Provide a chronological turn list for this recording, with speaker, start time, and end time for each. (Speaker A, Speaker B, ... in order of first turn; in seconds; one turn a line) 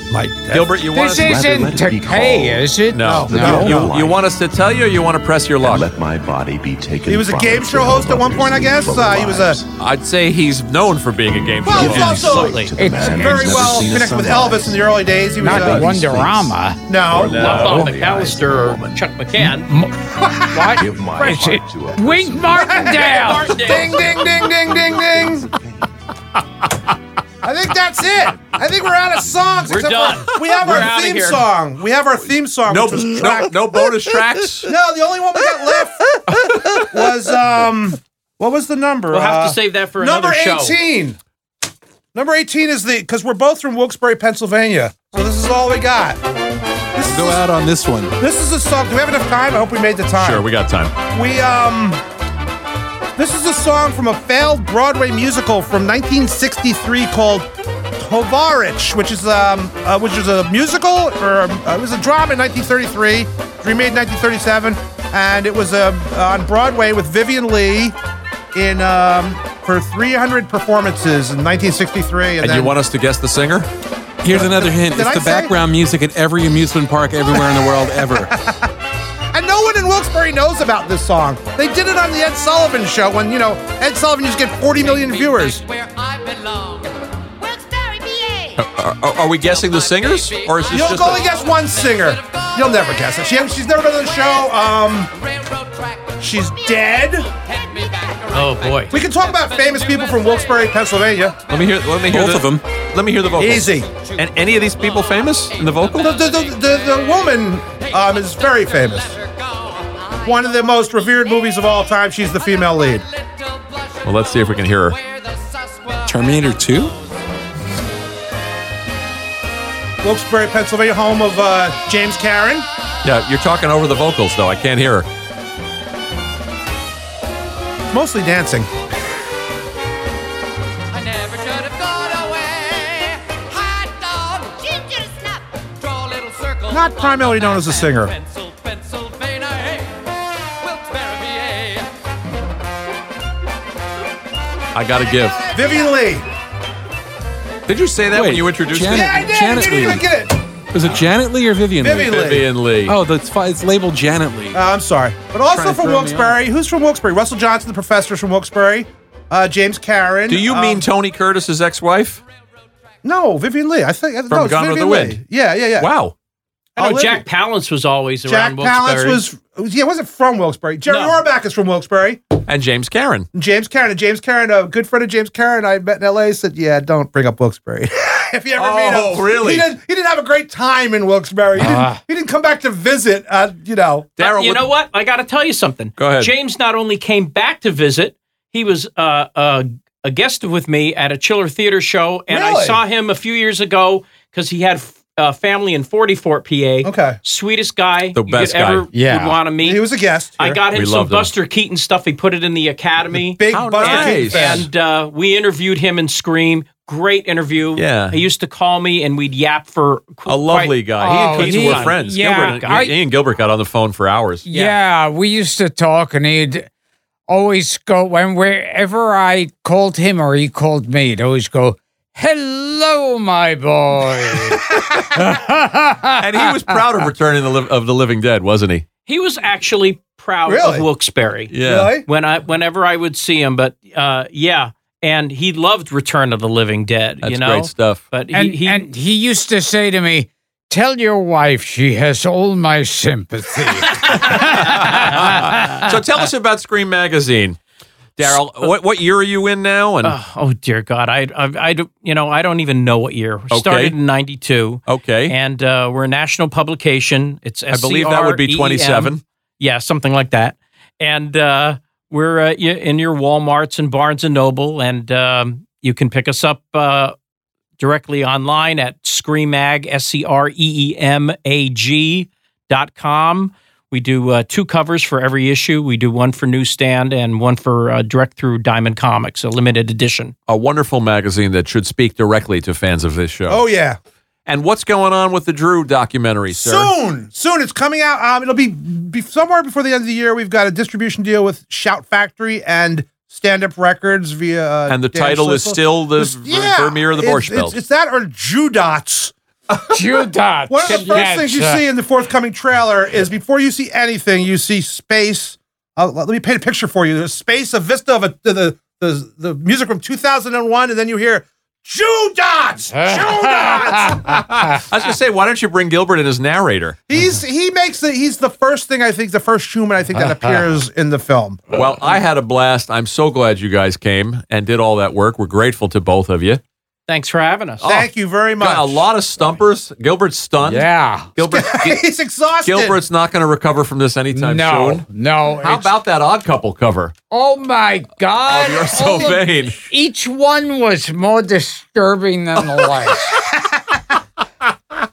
Speaker A: 0.1-0.8
Speaker B: 0.5-1.4
Speaker C: 0.9-3.8
Speaker D: 1.1-4.3
Speaker B: 2.9-5.9
Speaker A: 3.0-3.9
Speaker D: 5.6-9.7
Speaker A: 7.1-9.6
Speaker B: 9.8-12.5
Speaker A: 11.6-16.1
Speaker D: 11.7-19.1
Speaker E: 12.4-12.7
Speaker C: 12.8-13.6
Speaker C: 15.4-16.9
Speaker A: 16.9-17.6
Speaker B: 17.1-17.9
Speaker E: 17.4-19.7
Speaker C: 19.4-19.9
Speaker C: 20.4-23.6
Speaker D: 20.6-25.8
Speaker A: 22.6-25.5
Speaker E: 22.9-23.9
Speaker A: 27.4-33.8
Speaker E: 29.7-31.4
Speaker B: 32.7-34.7
Speaker A: 34.6-41.2
Speaker B: 36.3-36.9
Speaker E: 39.1-40.8
Speaker A: 42.1-46.2
Speaker A: 47.0-47.4
Speaker F: 47.0-48.1
Speaker A: 48.2-50.5
Speaker B: 50.2-50.9
Speaker A: 51.1-52.0
Speaker A: 53.2-68.0
Speaker A: 68.5-72.8
Speaker B: 72.4-73.7
Speaker F: 74.2-78.3
Speaker A: 74.3-75.5
Speaker A: 77.3-78.7
Speaker A: 79.3-85.6
Speaker G: 85.1-86.8
Speaker G: 87.4-88.6
Speaker B: 88.6-91.2
Speaker G: 89.4-92.5
Speaker A: 90.7-95.1
Speaker G: 95.4-96.1
Speaker A: 96.2-97.3
Speaker G: 97.3-100.0
Speaker E: 98.3-98.9
Speaker A: 98.9-101.4
Speaker B: 101.5-106.2
Speaker F: 102.1-102.6
Speaker A: 103.4-103.9
Speaker A: 106.0-109.2
Speaker A: 110.2-113.0
Speaker B: 114.0-115.0
Speaker G: 115.1-116.0
Speaker F: 116.1-116.9
Speaker A: 120.0-122.7
Speaker B: 123.0-125.1
Speaker A: 127.9-128.7
Speaker G: 131.0-139.7
Speaker A: 136.7-138.1
Speaker G: 140.8-141.7
Speaker B: 144.7-145.4
Speaker G: 145.1-145.8
Speaker A: 145.5-146.3
Speaker B: 147.7-149.2
Speaker F: 148.1-150.1
Speaker A: 148.8-150.4
Speaker F: 150.7-154.6
Speaker A: 151.8-152.5
Speaker B: 152.1-152.9
Speaker A: 154.5-160.8
Speaker F: 155.5-156.4
Speaker B: 160.3-162.2
Speaker A: 163.0-165.9
Speaker B: 164.3-165.2
Speaker B: 165.8-166.1
Speaker A: 166.8-167.3
Speaker E: 166.8-169.2
Speaker A: 168.3-172.2
Speaker E: 170.9-171.2
Speaker B: 172.5-173.3
Speaker A: 173.3-184.1
Speaker B: 178.6-179.7
Speaker C: 181.6-182.0
Speaker B: 184.2-184.7
Speaker E: 184.2-199.8
Speaker B: 186.0-186.3
Speaker A: 192.3-192.8
Speaker A: 196.8-197.2
Speaker B: 198.2-198.9
Speaker C: 198.9-199.4
Speaker A: 199.6-200.6
Speaker E: 200.4-212.9
Speaker B: 200.7-201.3
Speaker A: 203.1-204.7
Speaker B: 203.5-204.7
Speaker B: 207.8-208.2
Speaker B: 210.3-214.5
Speaker C: 211.0-212.9
Speaker C: 214.5-216.7
Speaker E: 214.5-214.8
Speaker C: 217.3-226.8
Speaker B: 226.2-228.9
Speaker E: 229.1-238.9
Speaker A: 230.5-230.9
Speaker B: 231.5-231.9
Speaker A: 231.6-232.1
Speaker B: 237.2-238.0
Speaker C: 238.3-245.9
Speaker E: 243.9-245.9
Speaker B: 244.3-247.6
Speaker B: 248.2-250.2
Speaker E: 248.2-248.7
Speaker E: 250.0-267.2
Speaker B: 253.5-253.9
Speaker B: 254.9-255.3
Speaker B: 257.7-259.2
Speaker E: 267.8-280.3
Speaker B: 280.5-283.6
Speaker A: 283.5-284.0
Speaker B: 284.5-286.9
Speaker A: 286.5-314.4
Speaker B: 294.9-297.8
Speaker C: 299.9-301.9
Speaker C: 312.9-314.8
Speaker B: 314.8-317.0
Speaker A: 317.1-321.6
Speaker C: 320.2-320.7
Speaker B: 321.7-326.6
Speaker E: 327.1-327.8
Speaker B: 327.8-328.1
Speaker A: 327.8-329.1
Speaker B: 328.6-332.0
Speaker C: 330.6-331.3
Speaker A: 331.5-333.0
Speaker B: 332.6-335.1
Speaker C: 334.3-335.9
Speaker B: 335.6-337.1
Speaker C: 337.3-343.4
Speaker B: 338.4-339.9